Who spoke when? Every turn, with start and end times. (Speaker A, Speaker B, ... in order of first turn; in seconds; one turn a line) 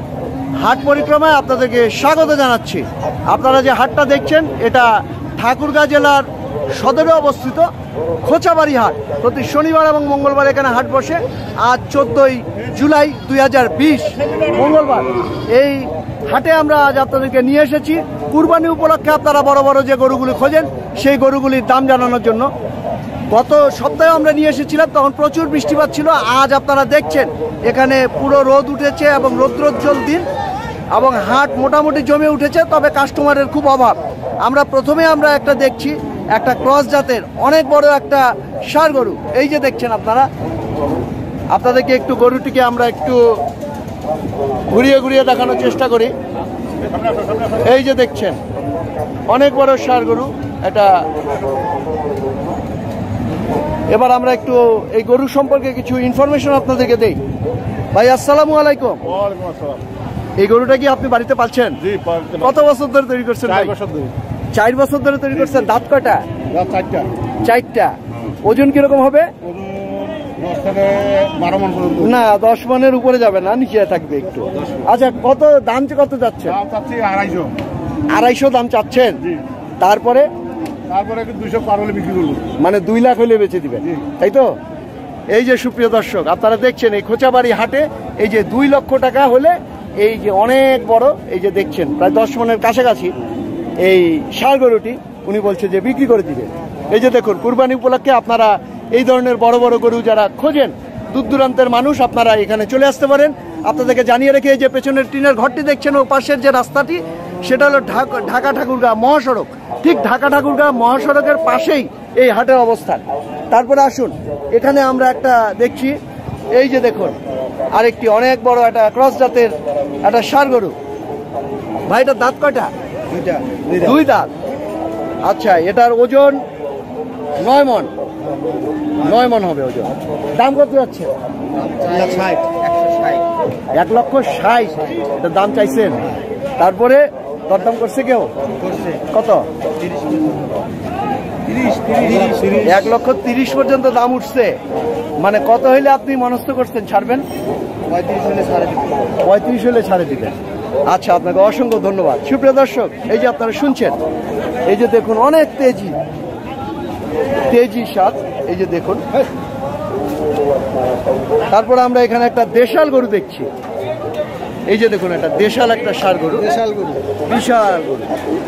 Speaker A: 0.6-7.7
Speaker A: 8.2-22.5
Speaker A: 23.3-30.2
Speaker A: 30.9-40.3
Speaker A: 41.5-43.4
Speaker A: 44.7-46.1
Speaker A: 47.5-48.4
Speaker A: 49.3-51.1
Speaker A: 53.9-57.2
Speaker A: 57.9-59.0
Speaker B: 59.3-59.8
Speaker A: 60.4-63.8
Speaker B: 62.0-62.2
Speaker B: 63.8-64.1
Speaker A: 64.5-66.2
Speaker B: 66.5-67.1
Speaker A: 67.4-69.3
Speaker B: 69.6-71.9
Speaker A: 71.9-76.6
Speaker B: 76.7-77.5
Speaker A: 78.1-79.2
Speaker A: 79.8-80.3
Speaker B: 80.9-82.5
Speaker A: 82.6-84.6
Speaker A: 85.3-93.1
Speaker A: 93.8-116.0
Speaker A: 116.5-117.1
Speaker A: 117.7-120.8
Speaker A: 121.9-122.7
Speaker C: 123.1-123.7
Speaker A: 123.7-124.3
Speaker A: 125.2-126.4
Speaker A: 127.4-127.9
Speaker A: 129.0-131.1
Speaker C: 131.7-132.6
Speaker A: 133.7-138.3
Speaker A: 139.0-139.5
Speaker C: 142.0-142.5
Speaker A: 142.5-144.6
Speaker A: 145.2-147.2
Speaker C: 147.9-148.8
Speaker A: 149.2-154.0
Speaker A: 154.6-156.0
Speaker A: 157.4-159.0
Speaker A: 161.4-163.5
Speaker A: 164.7-166.5
Speaker C: 166.4-167.1
Speaker A: 167.2-168.1